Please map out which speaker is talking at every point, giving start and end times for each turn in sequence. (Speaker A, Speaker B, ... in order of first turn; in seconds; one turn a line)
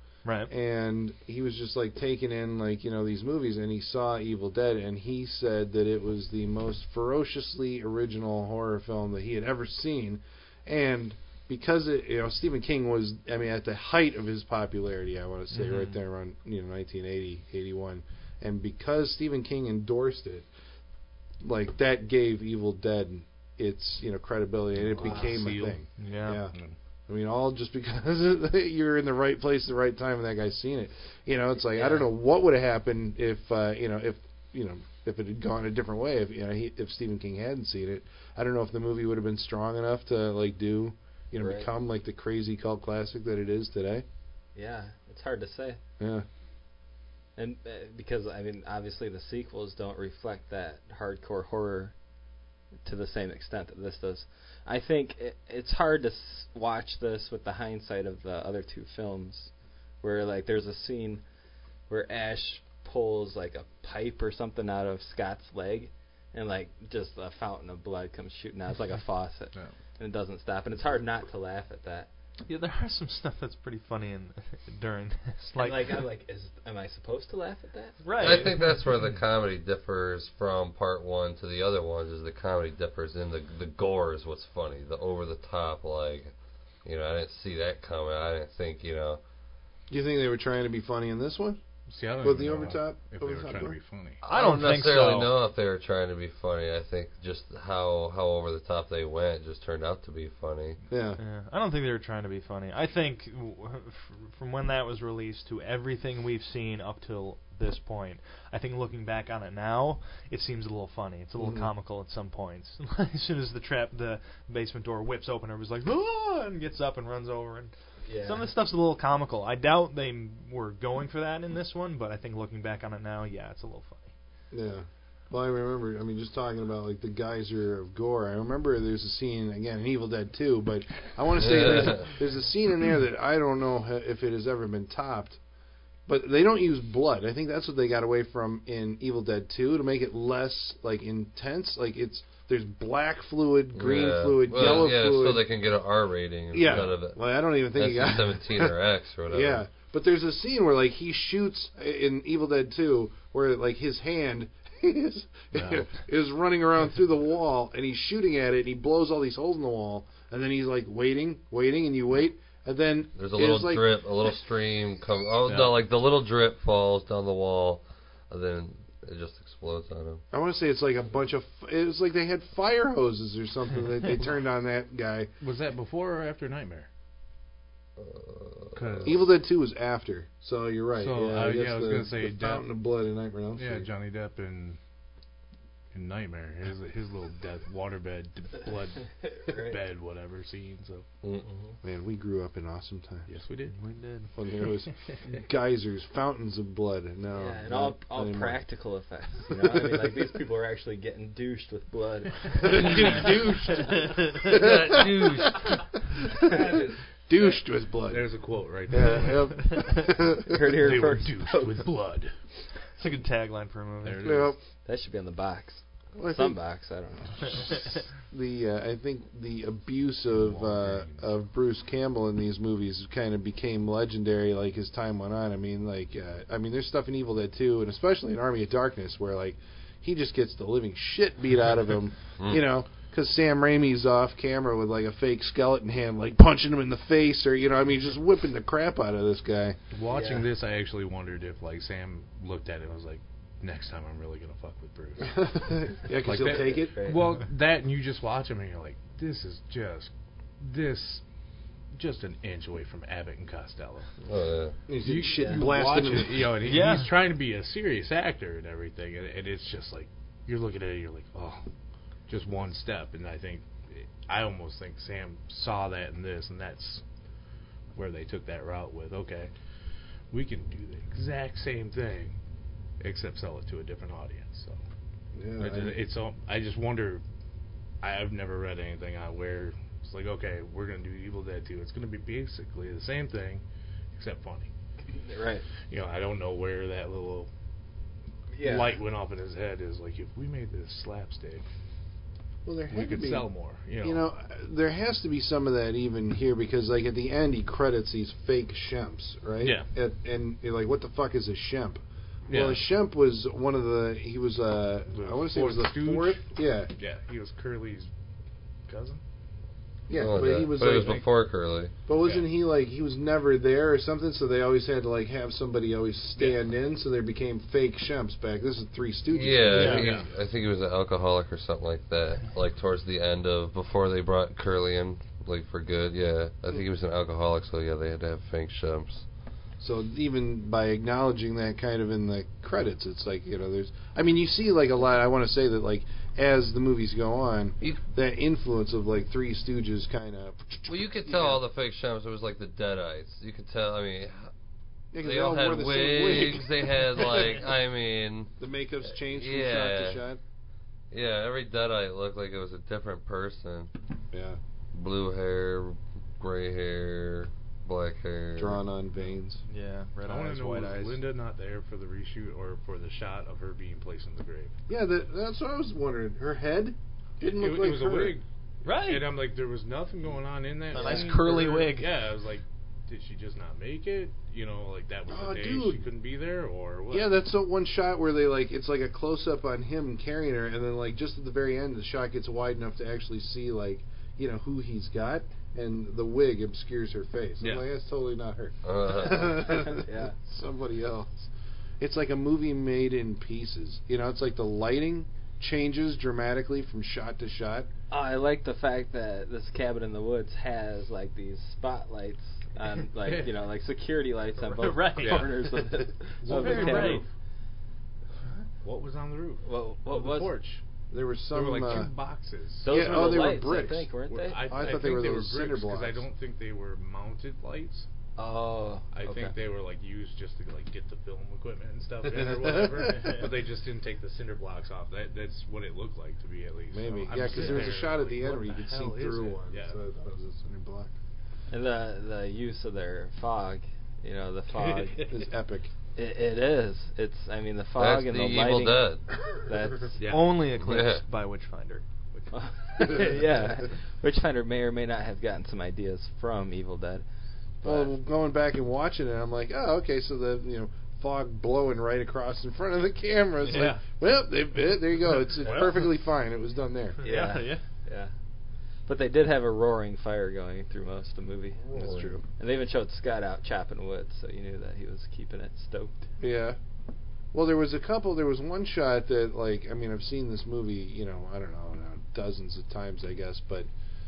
Speaker A: 0.2-0.5
Speaker B: 0.5-20.5
Speaker A: 15.5-16.0
Speaker B: 21.4-26.5
Speaker C: 24.9-25.8
Speaker D: 25.0-25.4
Speaker A: 26.0-26.4
Speaker B: 27.1-44.0
Speaker D: 31.7-32.1
Speaker D: 41.4-41.7
Speaker D: 44.5-45.8
Speaker B: 46.0-46.2
Speaker D: 47.4-51.9
Speaker D: 52.8-59.5
Speaker D: 60.0-61.2
Speaker D: 61.9-72.1
Speaker A: 72.5-76.0
Speaker D: 75.5-78.0
Speaker A: 78.0-78.5
Speaker E: 78.2-86.3
Speaker E: 86.8-89.2
Speaker B: 89.9-91.6
Speaker C: 91.9-94.2
Speaker B: 92.2-93.8
Speaker A: 94.2-95.4
Speaker E: 94.2-100.8
Speaker B: 100.9-101.2
Speaker A: 101.2-124.1
Speaker B: 111.4-111.7
Speaker D: 118.0-118.5
Speaker B: 124.5-135.4
Speaker E: 131.4-132.1
Speaker B: 136.1-145.5
Speaker E: 143.7-149.6
Speaker B: 146.5-148.8
Speaker B: 149.3-164.0
Speaker C: 155.5-155.9
Speaker E: 163.2-170.2
Speaker C: 165.5-165.8
Speaker B: 170.3-175.3
Speaker C: 175.4-176.9
Speaker E: 178.0-179.2
Speaker C: 178.7-179.2
Speaker B: 179.1-183.9
Speaker C: 181.0-182.7
Speaker C: 183.6-184.8
Speaker C: 185.9-191.0
Speaker D: 189.2-189.8
Speaker D: 191.4-191.8
Speaker B: 191.8-193.3
Speaker C: 193.3-193.8
Speaker A: 193.7-194.3
Speaker B: 194.3-198.6
Speaker D: 197.3-203.2
Speaker B: 199.5-200.2
Speaker B: 202.6-206.8
Speaker C: 202.7-203.7
Speaker A: 204.1-204.3
Speaker E: 204.5-205.7
Speaker C: 206.5-206.9
Speaker B: 207.3-208.3
Speaker C: 208.0-210.0
Speaker B: 208.9-210.7
Speaker D: 210.5-211.9
Speaker C: 210.7-212.3
Speaker A: 213.0-214.4
Speaker C: 214.0-214.6
Speaker B: 214.2-214.6
Speaker D: 214.8-217.8
Speaker B: 216.2-216.6
Speaker B: 218.3-239.8
Speaker C: 220.3-221.4
Speaker C: 239.9-245.5
Speaker D: 240.1-240.5
Speaker B: 245.3-246.9
Speaker C: 246.2-251.2
Speaker D: 246.7-247.2
Speaker C: 251.9-254.1
Speaker E: 254.2-254.8
Speaker B: 254.9-256.6
Speaker C: 254.9-261.6
Speaker D: 255.3-255.6
Speaker A: 256.6-257.1
Speaker C: 262.3-267.0
Speaker C: 267.9-269.5
Speaker C: 270.3-272.4
Speaker C: 273.0-274.8
Speaker B: 275.3-276.0
Speaker C: 275.6-277.2
Speaker C: 278.0-283.6
Speaker C: 284.1-284.7
Speaker D: 285.1-285.6
Speaker C: 285.9-287.5
Speaker D: 288.5-289.0
Speaker C: 288.6-291.6
Speaker B: 292.6-293.5
Speaker C: 292.9-294.2
Speaker B: 294.0-306.9
Speaker C: 299.6-299.9
Speaker C: 302.5-302.8
Speaker C: 305.1-308.1
Speaker C: 308.9-309.2
Speaker B: 310.1-311.2
Speaker E: 310.1-311.9
Speaker C: 310.8-311.2
Speaker B: 312.1-320.1
Speaker C: 312.2-312.5
Speaker E: 319.3-329.2
Speaker A: 319.7-320.0
Speaker C: 319.7-320.3
Speaker B: 329.8-341.6
Speaker E: 340.9-344.5
Speaker B: 345.1-347.7
Speaker E: 345.2-348.5
Speaker B: 348.6-350.4
Speaker E: 349.2-350.2
Speaker E: 351.1-353.9
Speaker B: 354.3-354.6
Speaker E: 354.9-358.8
Speaker B: 358.6-359.6
Speaker A: 359.7-361.2
Speaker C: 360.2-364.7
Speaker B: 364.9-368.4
Speaker C: 367.5-377.3
Speaker A: 368.8-369.3
Speaker A: 370.9-372.1
Speaker B: 375.3-376.1
Speaker B: 377.1-391.5
Speaker C: 387.6-387.9
Speaker E: 388.8-389.8
Speaker D: 389.8-390.4
Speaker B: 392.0-397.9
Speaker D: 398.1-407.2
Speaker C: 403.2-403.5
Speaker A: 404.8-405.5
Speaker C: 405.2-405.5
Speaker C: 406.4-407.2
Speaker A: 406.5-407.2
Speaker C: 408.8-410.8
Speaker D: 409.6-410.5
Speaker B: 411.1-412.1
Speaker C: 411.5-413.1
Speaker D: 412.8-415.1
Speaker B: 412.9-414.1
Speaker C: 414.3-418.1
Speaker B: 414.6-416.2
Speaker D: 418.4-419.5
Speaker C: 419.1-430.0
Speaker B: 422.3-423.4
Speaker A: 423.1-423.4
Speaker B: 426.9-431.1
Speaker D: 431.7-435.3
Speaker C: 434.8-435.3
Speaker B: 435.3-435.9
Speaker D: 436.1-440.2
Speaker E: 438.0-439.2
Speaker C: 440.2-440.6
Speaker A: 440.3-442.0
Speaker E: 440.7-441.2
Speaker D: 442.5-447.2
Speaker D: 447.8-448.1
Speaker B: 447.8-457.2
Speaker A: 453.6-454.0
Speaker A: 455.6-456.0
Speaker A: 457.2-457.8
Speaker D: 457.2-458.3
Speaker D: 459.1-461.8
Speaker B: 461.8-462.4
Speaker E: 461.9-462.3
Speaker D: 462.6-466.1
Speaker B: 466.4-466.8
Speaker B: 467.5-473.9